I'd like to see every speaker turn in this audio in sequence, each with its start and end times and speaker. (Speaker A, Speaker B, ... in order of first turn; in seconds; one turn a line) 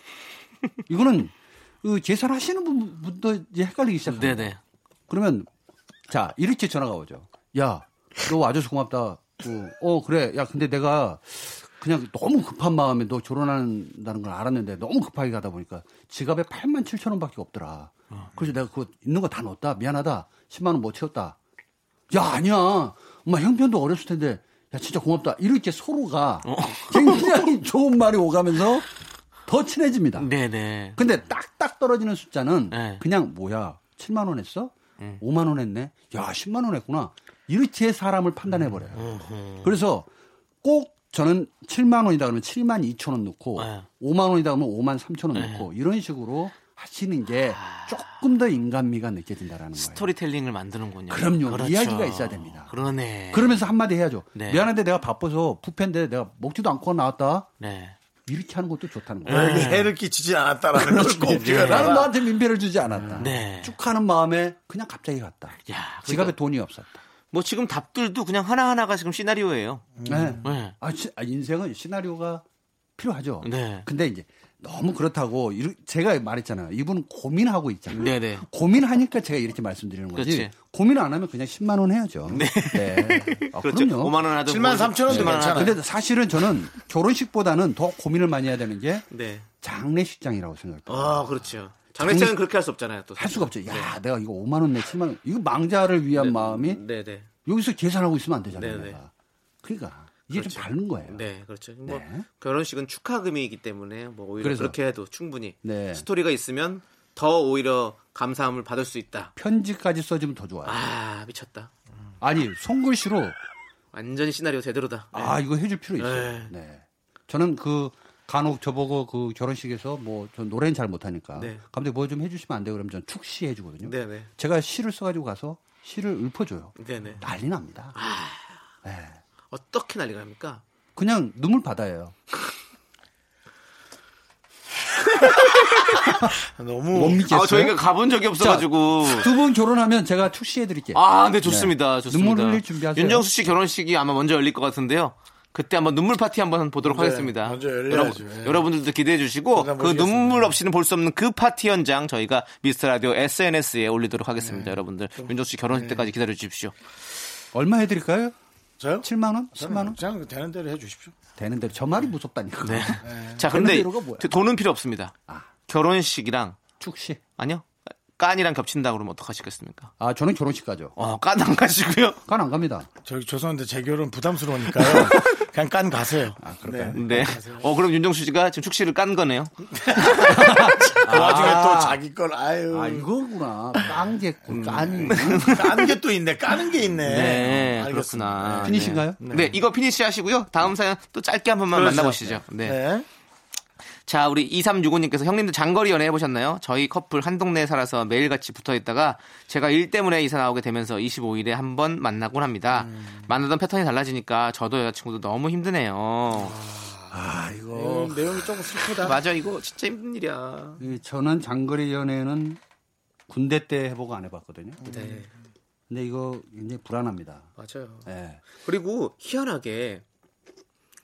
Speaker A: 0.9-4.5
Speaker B: 4.1-4.6
Speaker A: 5.1-5.5
Speaker A: 6.1-21.4
Speaker A: 22.1-28.9
Speaker B: 26.4-27.4
Speaker A: 29.5-30.3
Speaker B: 30.2-31.0
Speaker A: 31.0-40.1
Speaker B: 32.7-33.0
Speaker B: 38.9-39.7
Speaker A: 40.6-50.1
Speaker B: 43.6-43.9
Speaker B: 45.3-45.6
Speaker B: 47.5-48.0
Speaker B: 49.8-53.6
Speaker A: 51.1-52.7
Speaker A: 53.3-57.5
Speaker B: 54.4-54.7
Speaker B: 57.6-58.0
Speaker A: 58.3-59.9
Speaker B: 59.3-59.9
Speaker C: 59.3-62.2
Speaker A: 60.8-67.0
Speaker B: 61.4-61.9
Speaker B: 63.2-63.8
Speaker B: 65.7-66.3
Speaker B: 67.3-69.8
Speaker C: 70.0-70.5
Speaker A: 70.1-72.4
Speaker B: 70.4-70.8
Speaker A: 73.0-84.2
Speaker B: 73.4-73.9
Speaker B: 77.9-78.5
Speaker B: 80.1-80.5
Speaker B: 82.3-85.8
Speaker C: 84.5-85.8
Speaker A: 85.1-89.1
Speaker B: 89.1-89.5
Speaker A: 89.6-91.3
Speaker B: 90.9-93.9
Speaker A: 91.9-92.3
Speaker A: 93.2-96.8
Speaker B: 96.1-97.3
Speaker A: 97.5-99.1
Speaker B: 98.5-99.0
Speaker A: 99.6-101.2
Speaker B: 100.3-109.3
Speaker A: 101.9-102.2
Speaker A: 104.4-104.8
Speaker A: 105.6-106.0
Speaker A: 109.4-110.8
Speaker B: 110.7-111.7
Speaker A: 112.2-113.4
Speaker B: 113.9-115.4
Speaker A: 115.1-128.0
Speaker B: 116.0-116.5
Speaker B: 123.8-124.3
Speaker B: 126.8-127.2
Speaker B: 127.9-128.6
Speaker A: 128.8-129.2
Speaker B: 129.5-130.6
Speaker A: 131.0-132.2
Speaker C: 136.5-137.3
Speaker A: 136.9-137.9
Speaker B: 137.2-139.3
Speaker A: 138.4-143.3
Speaker B: 140.9-156.8
Speaker C: 146.8-148.6
Speaker C: 149.5-150.6
Speaker C: 154.4-156.1
Speaker A: 157.5-158.3
Speaker C: 158.8-161.2
Speaker A: 159.0-160.0
Speaker A: 161.4-164.3
Speaker B: 162.6-166.7
Speaker C: 163.0-163.4
Speaker A: 166.8-167.2
Speaker B: 167.4-169.9
Speaker A: 170.0-170.9
Speaker B: 171.0-172.2
Speaker A: 172.3-172.9
Speaker C: 173.1-177.7
Speaker B: 174.9-175.2
Speaker A: 176.4-177.0
Speaker B: 176.9-180.3
Speaker C: 179.7-183.1
Speaker A: 180.2-182.0
Speaker A: 182.7-185.7
Speaker B: 184.5-185.9
Speaker C: 184.6-189.6
Speaker B: 187.1-192.8
Speaker A: 187.1-187.7
Speaker A: 188.6-189.2
Speaker C: 191.7-193.1
Speaker B: 194.1-206.6
Speaker C: 202.7-203.3
Speaker C: 206.3-209.2
Speaker A: 207.1-208.4
Speaker B: 209.0-210.8
Speaker A: 210.8-212.6
Speaker A: 213.3-214.8
Speaker C: 214.8-215.3
Speaker B: 214.9-215.3
Speaker A: 215.9-217.5
Speaker B: 217.6-220.0
Speaker A: 218.1-218.5